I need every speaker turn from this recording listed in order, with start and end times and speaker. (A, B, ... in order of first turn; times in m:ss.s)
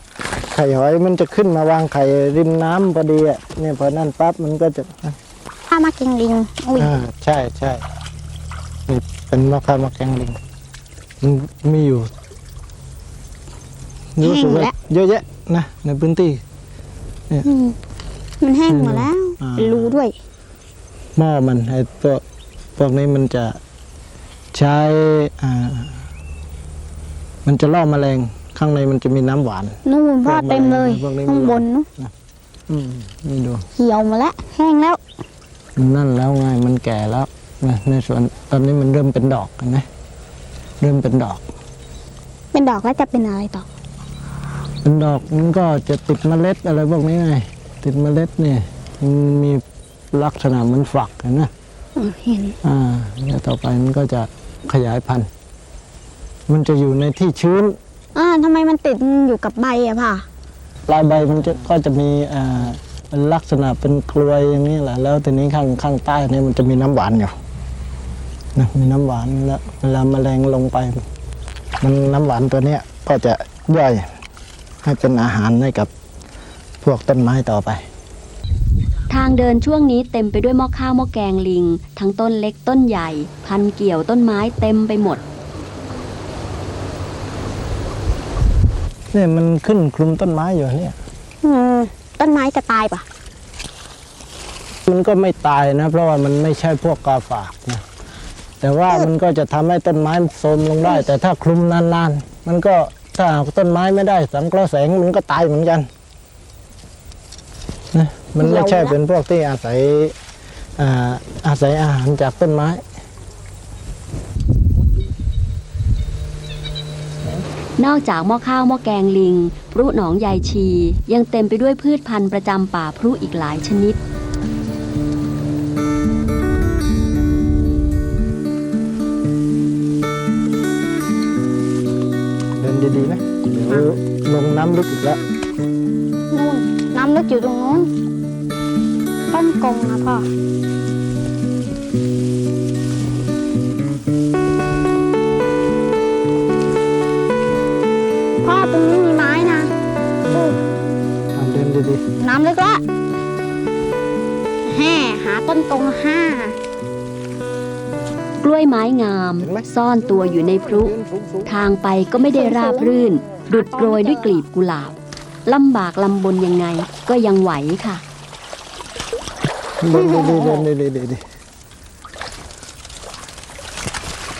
0:00.5-0:05.2 A
0:05.7-0:06.9 B
0:06.7-0:07.8 A
0:08.9-0:10.4 A
0:11.2-0:12.1 A
0:14.2-0:16.4 A
0:14.2-0:14.7 B
0:17.4-0:17.8 B
0:18.4-0:20.1 B
0:18.7-0:20.0 A
0:21.2-0:22.2 A
0:22.8-0:23.6 A
0:24.5-0:26.0 A
0:27.4-0:32.1 A
0:29.8-0:31.9 B
0:32.7-0:33.6 A
0:33.8-0:35.0 B
0:35.8-0:39.8 A
0:40.8-0:41.4 A
0:42.5-0:43.6 B
0:44.8-0:51.5 A
0:52.0-0:52.6 B
0:52.6-0:55.3 A
0:56.5-0:57.8 A
0:58.1-1:00.2 B
1:00.9-1:07.3 A
1:08.6-1:11.0 A
1:11.8-1:14.0 A
1:14.8-1:15.9 A
1:16.8-1:17.8 A
1:19.1-1:25.2 C
1:29.1-1:31.0 A
1:31.4-1:33.0 B
1:34.9-1:37.8 A
1:38.6-1:45.9 A
1:47.9-1:50.1 A
1:48.4-1:49.0 B
1:50.8-1:52.8 A
1:57.8-2:04.0 C
2:12.5-2:15.2 A
2:16.3-2:17.9 B
2:19.3-2:20.3 B
2:28.4-2:29.7 B
2:30.3-2:30.6 B
2:31.4-2:32.0 A
2:32.2-2:32.8 B
2:34.7-2:36.6 B
2:38.4-2:40.9 C
2:39.4-2:41.5 A
2:41.4-2:44.9 C
2:42.3-2:44.4 B
2:45.4-2:48.0 C
2:49.8-2:51.2 A
2:50.0-2:50.6 B